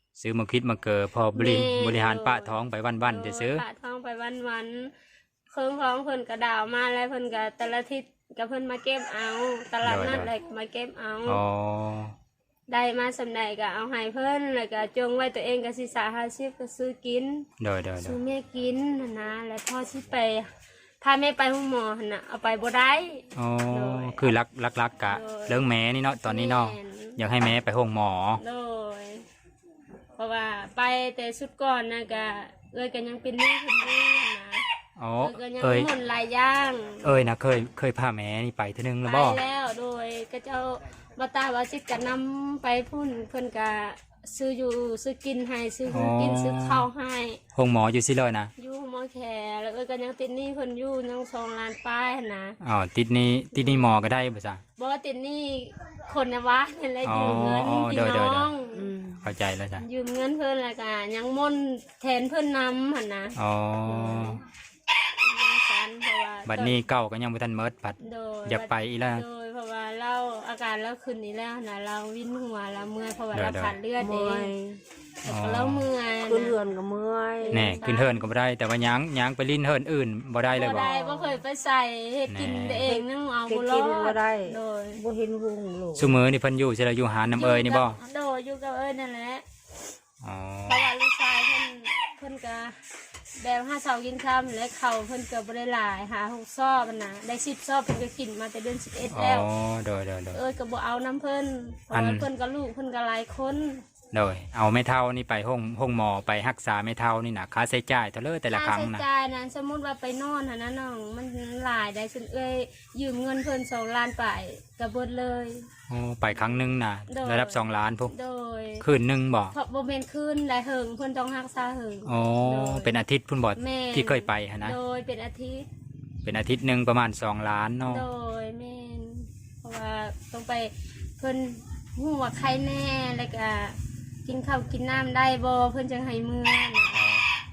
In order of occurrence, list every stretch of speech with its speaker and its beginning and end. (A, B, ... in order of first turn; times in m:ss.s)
0:00.2-0:03.6 A
0:01.3-0:04.9 B
0:05.5-0:11.4 B
0:09.8-0:10.3 A
0:11.3-0:12.1 A
0:12.7-0:17.5 B
0:17.6-0:18.2 A
0:18.0-0:20.5 B
0:21.0-0:24.3 B
0:23.4-0:28.4 A
0:25.0-0:25.7 B
0:26.2-0:27.2 B
0:28.4-0:29.2 B
0:30.2-0:34.6 B
0:35.0-0:35.9 A
0:35.2-0:37.3 B
0:37.0-0:39.4 A
0:39.0-0:47.4 B
0:45.9-0:46.9 A
0:47.6-0:48.5 A
0:48.6-0:52.6 B
0:52.6-0:54.6 A
0:53.5-0:54.0 B
0:54.8-0:59.0 B
0:57.0-0:58.5 A
0:58.8-0:59.2 C
0:59.2-0:59.8 A
0:59.8-1:03.4 B
1:03.4-1:04.4 A
1:03.9-1:04.4 B
1:05.2-1:06.8 B
1:06.5-1:09.3 A
1:08.0-1:14.5 B
1:13.3-1:13.8 A
1:14.0-1:14.8 C
1:15.2-1:15.9 A
1:15.2-1:16.6 B
1:16.3-1:17.8 C
1:17.5-1:18.2 B
1:17.5-1:21.0 A
1:20.5-1:25.0 B
1:22.3-1:23.0 A
1:22.9-1:26.1 C
1:25.9-1:28.0 A
1:27.3-1:29.4 B
1:30.2-1:30.9 A
1:30.7-1:32.8 B
1:33.4-1:39.5 B
1:39.1-1:40.4 A
1:40.3-1:43.8 B
1:41.9-1:42.3 A
1:44.1-1:49.0 A
1:48.5-1:55.7 B
1:55.9-1:58.1 A
1:57.1-1:58.8 B
1:58.8-1:59.6 A
1:59.5-2:02.9 B
2:02.0-2:04.8 A
2:03.6-2:05.7 B
2:06.2-2:08.0 A
2:07.8-2:17.0 B
2:16.9-2:17.3 A